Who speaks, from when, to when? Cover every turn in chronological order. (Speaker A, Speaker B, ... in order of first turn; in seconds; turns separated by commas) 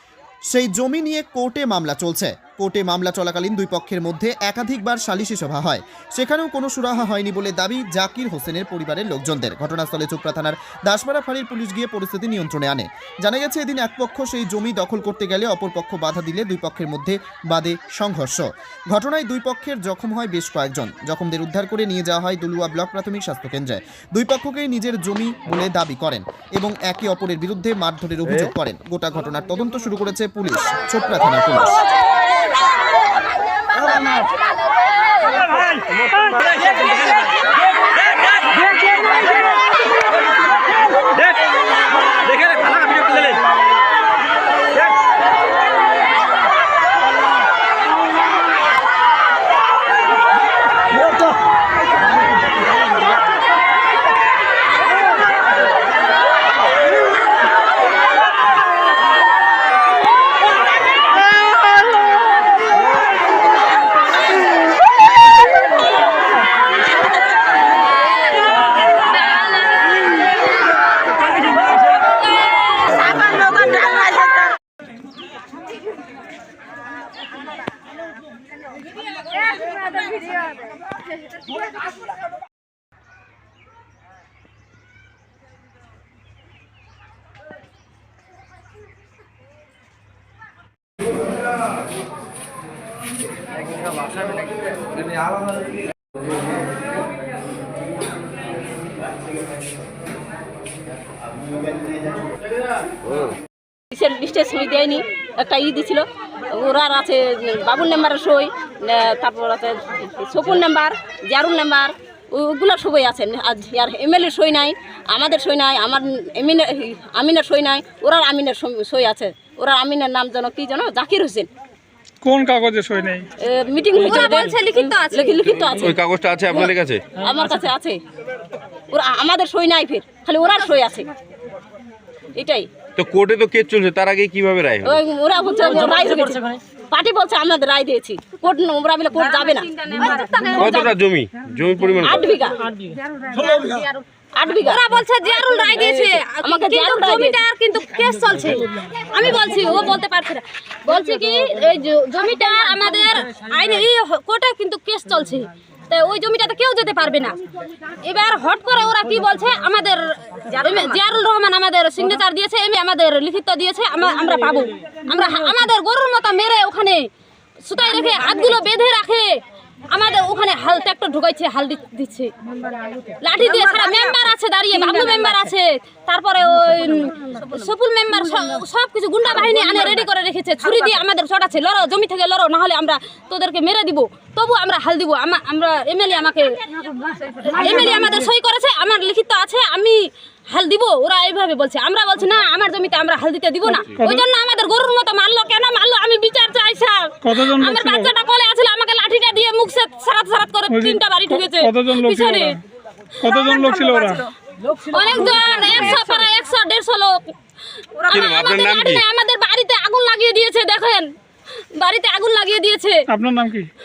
Speaker A: 0.5-31.8, Speaker B: 42.4-43.3, Speaker C: 72.9-74.5, Speaker C: 103.9-121.5, Speaker D: 122.2-123.2, Speaker C: 123.4-126.0, Speaker E: 124.0-125.3, Speaker B: 125.6-127.1, Speaker C: 126.5-128.0, Speaker C: 128.9-131.1, Speaker C: 132.3-132.7, Speaker B: 133.0-135.0, Speaker C: 134.8-140.9, Speaker E: 139.2-140.8, Speaker B: 140.5-142.3, Speaker C: 142.0-142.6, Speaker E: 143.3-143.8, Speaker C: 144.3-144.8, Speaker E: 144.6-157.3, Speaker C: 145.8-147.4, Speaker E: 158.0-167.1, Speaker C: 160.5-161.0, Speaker E: 167.6-169.3, Speaker E: 169.9-172.3, Speaker E: 173.2-186.6, Speaker C: 173.4-175.3, Speaker C: 177.3-177.7, Speaker C: 179.3-179.7, Speaker E: 187.4-202.5, Speaker C: 187.4-188.1, Speaker D: 193.9-194.2, Speaker D: 197.2-198.1, Speaker D: 200.7-202.6, Speaker D: 203.2-204.2, Speaker C: 203.5-204.2, Speaker E: 204.7-207.3, Speaker C: 205.8-206.2, Speaker C: 208.0-208.3, Speaker E: 208.1-211.1, Speaker B: 208.1-209.0, Speaker E: 211.7-213.0, Speaker D: 213.1-213.7